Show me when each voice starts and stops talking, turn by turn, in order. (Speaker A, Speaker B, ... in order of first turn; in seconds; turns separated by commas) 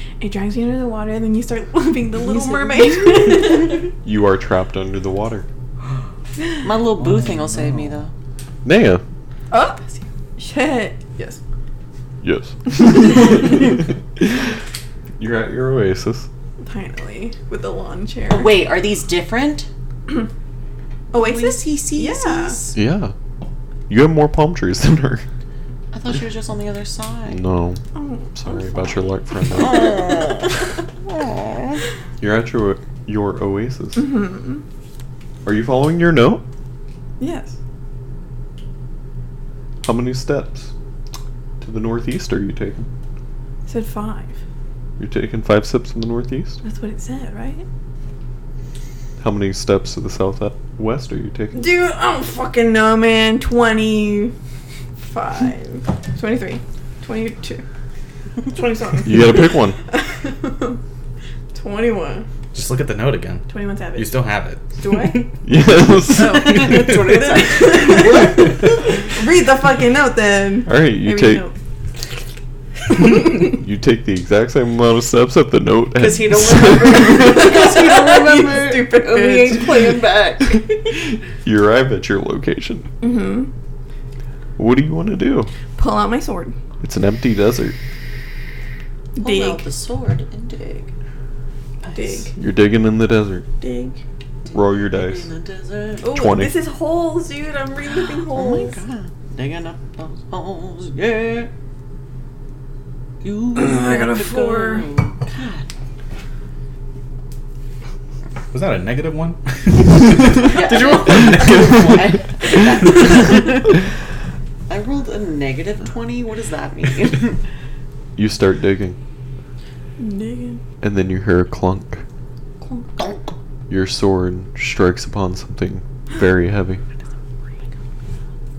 Speaker A: 0.2-3.9, Speaker B: 4.0-5.5, Speaker C: 6.6-8.1, Speaker D: 6.9-8.1, Speaker B: 8.6-9.0, Speaker A: 9.5-9.8, Speaker A: 10.4-11.4, Speaker B: 12.2-14.5, Speaker B: 15.2-16.3, Speaker A: 16.6-18.6, Speaker C: 18.3-19.7, Speaker A: 21.1-22.6, Speaker C: 21.1-22.8, Speaker B: 22.7-23.1, Speaker B: 23.9-25.2, Speaker C: 25.9-27.4, Speaker B: 27.3-27.8, Speaker A: 27.9-29.1, Speaker B: 28.4-30.0, Speaker C: 29.5-31.8, Speaker B: 32.2-34.1, Speaker A: 34.0-34.6, Speaker B: 35.5-36.4, Speaker A: 37.2-37.6, Speaker B: 39.8-40.7, Speaker B: 41.6-42.9, Speaker A: 43.7-44.4, Speaker B: 45.0-46.6, Speaker A: 46.6-47.7, Speaker B: 49.2-51.7, Speaker A: 51.5-54.3, Speaker A: 55.0-57.6, Speaker A: 58.5-60.8, Speaker B: 59.0-59.8, Speaker A: 61.5-62.3, Speaker D: 62.5-65.3, Speaker A: 63.5-65.3, Speaker B: 65.4-66.8, Speaker A: 66.1-71.5, Speaker C: 66.2-68.8, Speaker D: 66.7-67.2, Speaker B: 70.7-71.5, Speaker A: 73.1-73.4, Speaker B: 73.2-77.5, Speaker C: 76.0-80.7, Speaker A: 77.2-79.8, Speaker B: 81.4-82.9, Speaker A: 83.0-83.5, Speaker B: 84.6-85.5, Speaker A: 85.8-86.5, Speaker B: 86.8-87.8, Speaker A: 89.2-89.6, Speaker C: 89.2-90.9, Speaker A: 91.9-92.3, Speaker B: 92.4-93.5, Speaker A: 93.6-94.0, Speaker C: 94.5-96.2, Speaker B: 94.5-95.3, Speaker A: 96.0-98.8, Speaker B: 96.1-96.5, Speaker C: 97.9-101.5, Speaker C: 103.2-105.7, Speaker A: 103.5-105.0, Speaker D: 108.5-113.1, Speaker C: 110.4-113.8, Speaker C: 114.7-117.4, Speaker B: 118.2-119.0, Speaker A: 120.0-120.6, Speaker B: 120.8-122.0, Speaker A: 122.6-123.0, Speaker B: 123.7-126.8